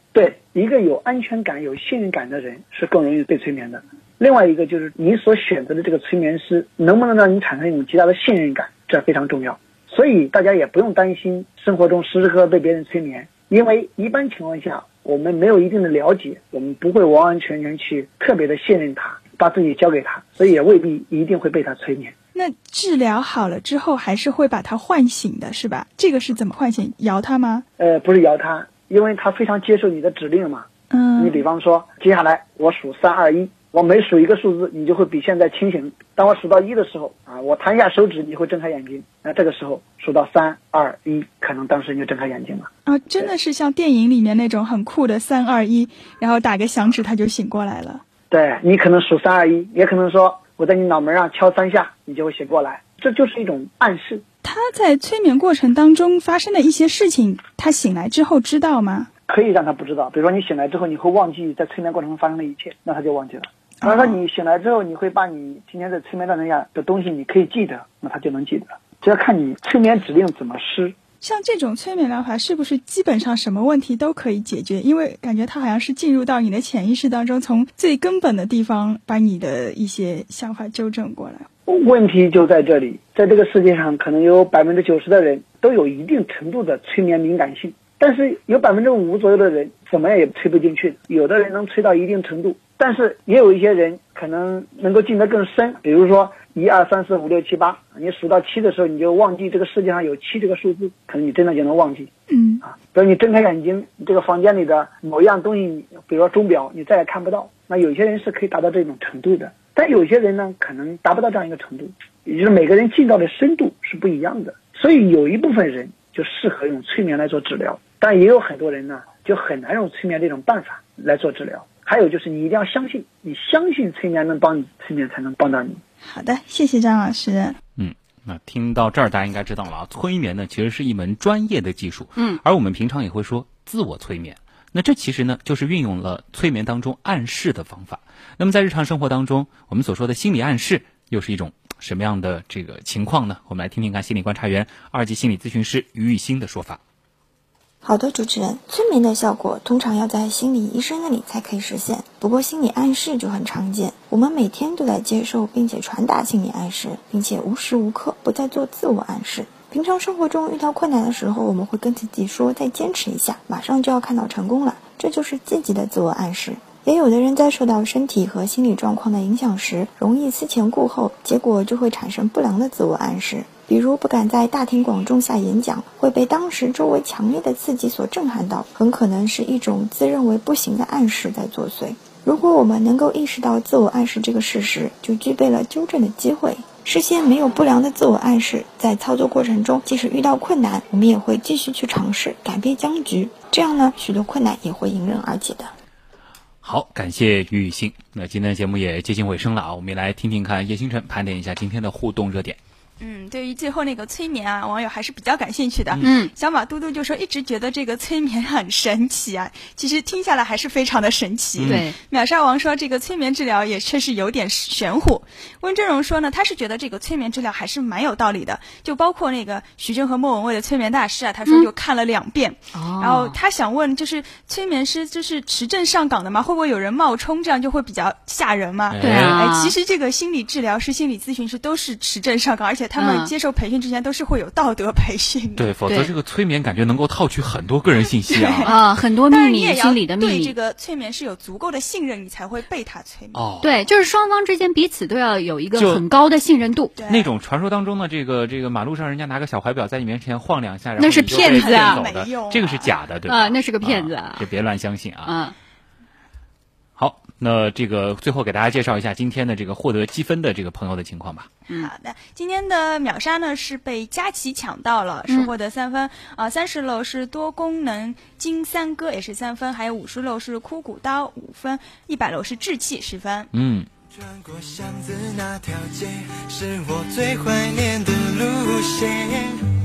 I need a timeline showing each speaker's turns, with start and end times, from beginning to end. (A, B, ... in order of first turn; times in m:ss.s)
0:00.1-0:22.1 A
0:22.3-0:27.6 B
0:27.8-0:43.3 A
0:42.9-0:48.0 B
0:48.3-0:54.2 A
0:54.4-0:59.1 B
0:59.3-1:11.0 A
1:11.2-1:21.4 B
1:21.6-1:42.1 A
1:42.3-1:42.6 B
1:42.6-2:05.8 A
2:06.1-2:07.5 B
2:07.8-2:26.8 C
2:27.8-3:15.7 D
3:16.6-3:22.6 C
3:23.0-3:29.1 E
3:26.0-3:26.3 F
3:28.3-3:30.0 B
3:29.9-3:31.5 E
3:31.6-3:31.8 C
3:31.7-3:31.9 F
3:32.1-3:35.1 E
3:34.0-3:35.7 B
3:35.7-3:41.2 E
3:38.5-3:38.9 B
3:39.5-3:40.0 B
3:41.2-3:41.7 B
3:41.7-3:43.8 E
3:42.7-3:43.4 F
3:43.3-3:48.7 B
3:45.9-3:47.9 E
3:48.4-3:55.7 E
3:48.9-3:49.4 C
3:49.0-3:49.7 F
3:50.9-3:52.3 B
3:53.0-3:53.3 F
3:54.0-3:55.2 B
3:55.6-3:58.7 C
3:55.9-3:56.1 F
3:58.3-3:58.7 E
3:58.6-4:00.5 F
3:59.2-4:03.4 E
4:00.5-4:00.9 B
4:03.3-4:03.8 C
4:03.6-4:06.9 F
4:05.7-4:06.0 C
4:07.0-4:07.3 E
4:07.0-4:15.3 C
4:11.0-4:12.0 F
4:11.3-4:13.0 E
4:13.2-4:14.5 F
4:15.2-4:15.5 F
4:17.0-4:21.5 C
4:22.0-4:23.0 B
4:22.2-4:23.7 E
4:23.6-4:24.7 B
4:24.2-4:31.0 E
4:25.3-4:26.2 B
4:27.0-4:32.2 B
4:31.9-4:33.4 E
4:33.5-4:33.9 C
4:34.4-4:39.6 G